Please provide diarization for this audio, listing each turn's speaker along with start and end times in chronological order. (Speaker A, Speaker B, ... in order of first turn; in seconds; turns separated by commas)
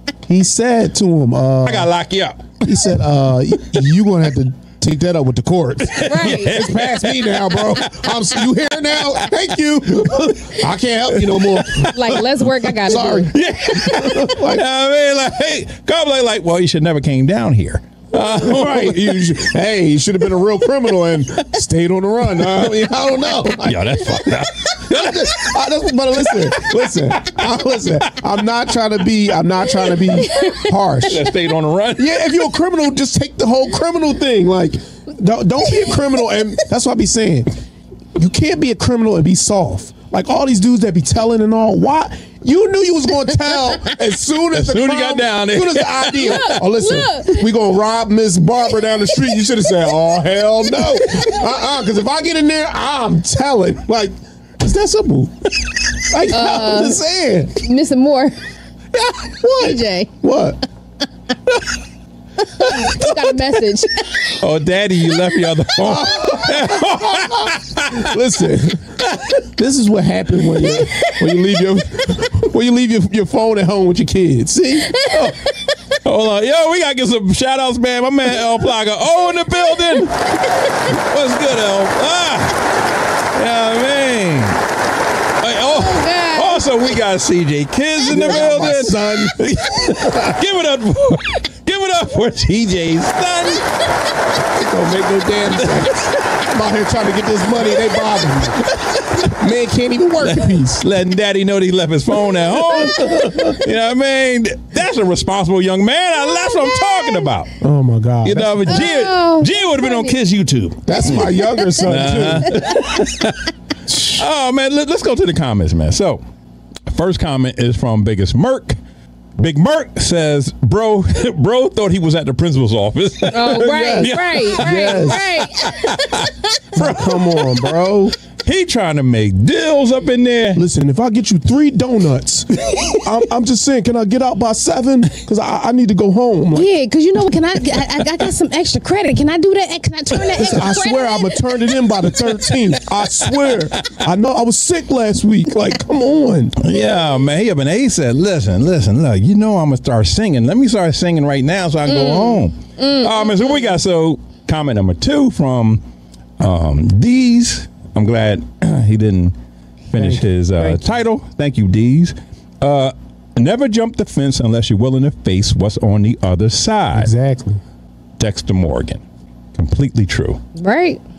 Speaker A: 0.2-1.9, Speaker B: 1.6-2.6, Speaker A: 2.6-12.3, Speaker B: 5.8-9.3, Speaker C: 6.0-6.6, Speaker B: 10.0-10.7, Speaker B: 11.2-19.4, Speaker C: 11.9-13.3, Speaker A: 12.8-14.6, Speaker A: 18.1-31.3, Speaker B: 23.6-25.6, Speaker B: 26.2-27.5, Speaker B: 29.9-32.3, Speaker C: 30.2-30.7, Speaker A: 32.0-37.5, Speaker A: 38.1-55.3, Speaker B: 44.5-46.6, Speaker C: 46.2-47.5, Speaker A: 56.1-57.6, Speaker C: 56.3-57.0, Speaker C: 57.6-58.3, Speaker A: 58.9-60.6, Speaker C: 59.5-60.1, Speaker C: 62.6-64.3, Speaker B: 62.8-63.1, Speaker B: 64.2-68.1, Speaker A: 65.8-68.8, Speaker B: 69.0-69.4, Speaker A: 69.4-75.1, Speaker C: 75.0-75.5, Speaker B: 76.0-82.6, Speaker B: 83.3-84.6, Speaker B: 85.4-93.8, Speaker C: 85.7-86.6, Speaker A: 88.1-89.4, Speaker A: 94.4-98.7, Speaker B: 95.5-96.5, Speaker B: 97.6-98.3, Speaker A: 99.2-100.8, Speaker B: 100.2-107.5, Speaker A: 102.3-103.5, Speaker A: 107.6-108.8, Speaker B: 108.2-113.5, Speaker C: 108.7-110.2, Speaker A: 110.8-112.6, Speaker A: 113.9-114.2, Speaker B: 114.1-116.2, Speaker B: 116.9-118.8, Speaker B: 119.4-127.8, Speaker C: 123.3-126.3, Speaker A: 123.5-125.2, Speaker A: 126.7-128.2, Speaker B: 128.4-130.6, Speaker A: 130.5-136.7, Speaker C: 136.5-141.4, Speaker A: 140.4-146.5, Speaker B: 142.3-143.6, Speaker B: 146.6-155.8, Speaker C: 151.9-153.6, Speaker B: 156.4-159.3, Speaker B: 159.9-167.1, Speaker A: 159.9-160.3, Speaker A: 166.9-167.6, Speaker B: 168.2-169.0, Speaker B: 169.5-170.4, Speaker C: 170.6-171.0